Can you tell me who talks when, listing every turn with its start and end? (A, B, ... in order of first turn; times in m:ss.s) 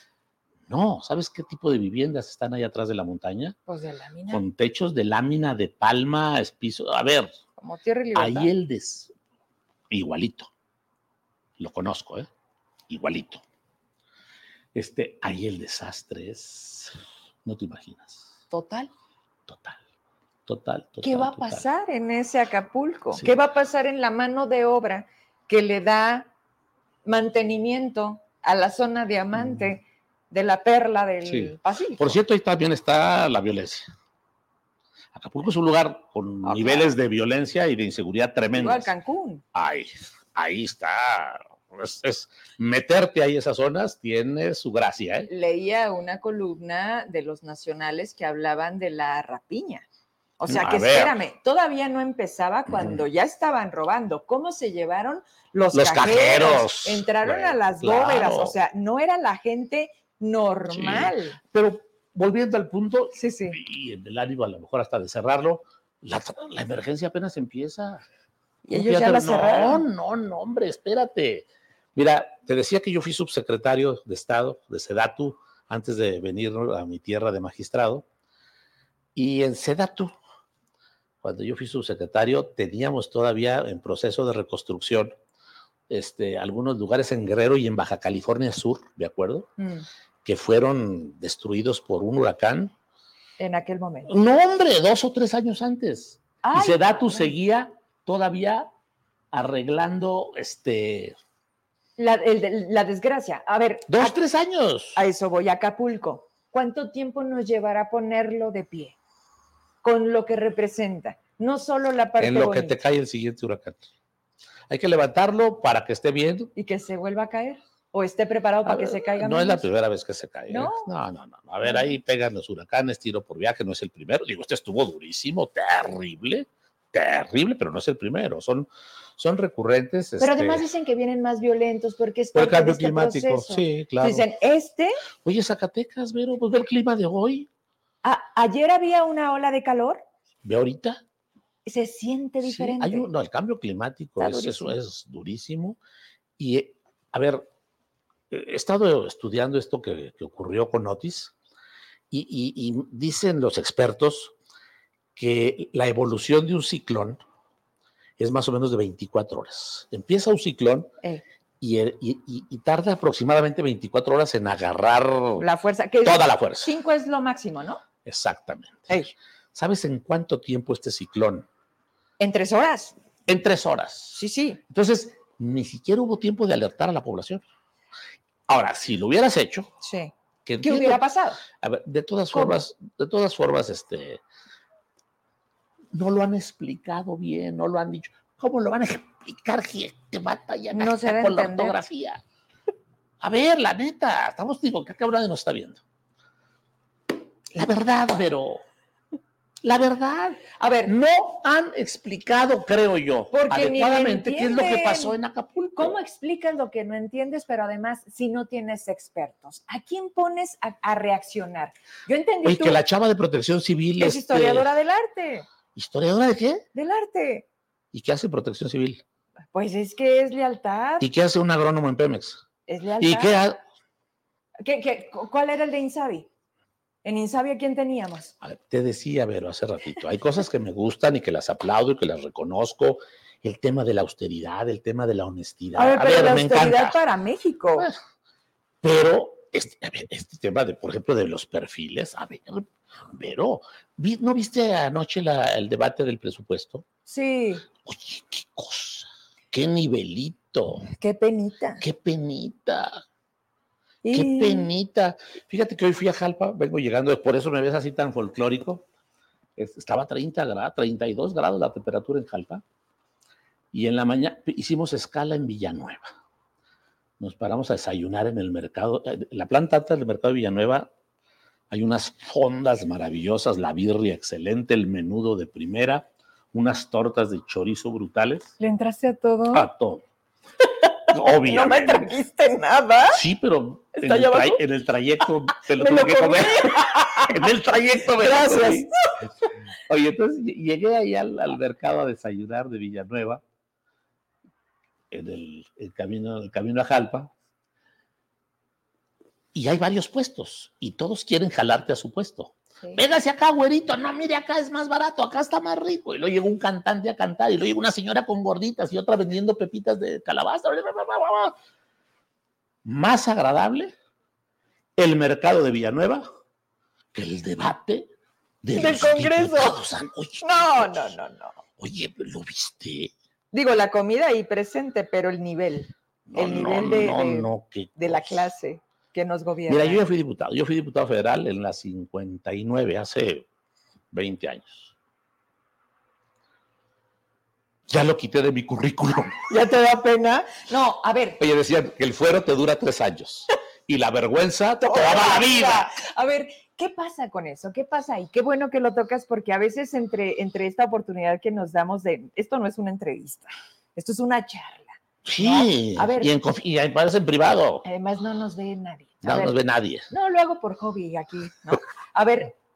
0:00.7-0:03.6 A
0:03.7-0:04.4 B
0:04.3-0:07.4 A
0:07.6-0:08.5 B
0:08.2-0:09.1 A
0:09.9-0:10.5 A
0:11.6-0:12.3 A
0:12.9-0:13.4 A
0:14.8-0:18.3 A
0:18.5-0:18.9 B
0:19.5-0:19.8 A
0:20.5-0:21.6 A
0:21.0-0:26.3 B
0:27.1-0:32.2 B
0:29.4-0:29.7 A
0:31.3-0:33.9 A
0:35.1-0:38.9 A
0:36.4-0:36.9 B
0:38.5-0:39.4 B
0:39.5-0:45.3 A
0:45.3-0:49.8 B
0:50.4-1:01.4 B
0:50.5-0:51.1 A
0:52.7-0:53.0 A
0:55.7-0:58.6 A
1:00.7-1:08.0 A
1:03.2-1:03.6 B
1:08.7-1:09.8 B
1:08.7-1:18.0 A
1:19.2-1:20.2 A
1:21.2-1:25.1 A
1:25.9-1:29.5 A
1:29.6-1:29.9 B
1:30.2-1:32.7 A
1:33.4-1:34.1 B
1:34.1-1:38.7 A
1:36.4-1:37.4 B
1:39.3-1:41.2 A
1:42.0-1:44.2 B
1:43.9-1:45.0 A
1:45.0-1:49.0 B
1:49.8-1:52.8 B
1:52.2-1:53.9 A
1:54.7-1:56.5 A
1:56.6-1:59.6 B
1:58.6-2:10.7 A
2:00.5-2:00.9 B
2:10.2-2:15.0 B
2:12.3-2:14.3 A
2:15.2-2:17.5 A
2:18.0-2:20.0 B
2:20.4-2:21.0 A
2:21.7-2:23.1 B
2:22.4-2:25.8 A
2:24.2-2:24.8 B
2:26.4-2:27.4 A
2:28.3-2:31.3 A
2:32.1-2:34.3 A
2:35.2-2:37.2 A
2:38.2-2:40.9 A
2:41.6-2:45.5 A
2:45.4-2:47.8 B
2:46.0-2:46.7 A
2:48.0-2:49.0 A
2:49.5-2:51.5 A
2:52.2-2:53.0 B
2:53.3-2:57.4 A
2:54.2-2:54.6 B
2:58.5-2:59.7 A
2:59.8-3:01.4 B
3:00.4-3:04.2 A
3:02.3-3:02.6 B
3:05.9-3:12.2 A
3:10.8-3:11.8 B
3:13.2-3:15.8 A
3:17.5-3:18.6 A
3:19.6-3:26.0 A
3:20.6-3:20.9 B
3:23.3-3:25.2 B
3:25.8-3:32.8 B
3:32.4-3:34.7 A
3:34.0-3:35.5 B
3:35.8-3:36.7 A
3:36.7-3:37.5 B
3:37.9-3:39.0 A
3:39.5-3:41.1 B
3:41.0-3:42.4 A
3:42.7-3:43.4 B
3:43.0-3:43.6 A
3:44.6-3:46.3 B
3:47.0-3:48.3 B
3:48.4-3:57.0 A
3:55.8-3:57.9 B
3:58.8-4:06.8 A
4:07.1-4:07.7 B
4:07.8-4:10.9 A
4:10.9-4:11.8 B
4:11.8-4:13.0 A
4:14.0-4:14.7 B
4:14.1-4:18.8 A
4:19.6-4:22.6 A
4:23.7-4:26.1 A
4:27.2-4:30.9 A
4:31.7-4:38.5 A
4:38.6-4:39.7 B
4:39.5-4:40.0 A
4:41.1-4:42.1 A
4:41.4-4:43.2 B
4:43.1-4:48.9 A
4:43.9-4:44.6 B
4:45.8-4:47.4 B
4:48.0-4:49.1 B
4:49.9-4:53.4 A
4:55.1-4:57.3 A
4:59.5-5:11.6 A
5:12.8-5:13.9 A
5:15.0-5:16.2 A
5:17.1-5:18.1 A
5:18.6-5:21.1 A
5:18.8-5:19.8 B
5:20.4-5:21.6 B
5:21.8-5:23.1 A
5:23.5-5:30.0 B
5:26.3-5:28.4 A
5:29.7-5:33.5 A
5:34.1-5:34.9 A
5:37.9-5:39.4 A
5:39.5-5:41.4 B
5:41.4-5:45.9 A
5:44.8-5:56.3 B
5:55.2-5:57.8 A
5:57.8-5:59.6 B
5:59.2-6:00.1 A
6:00.1-6:02.5 B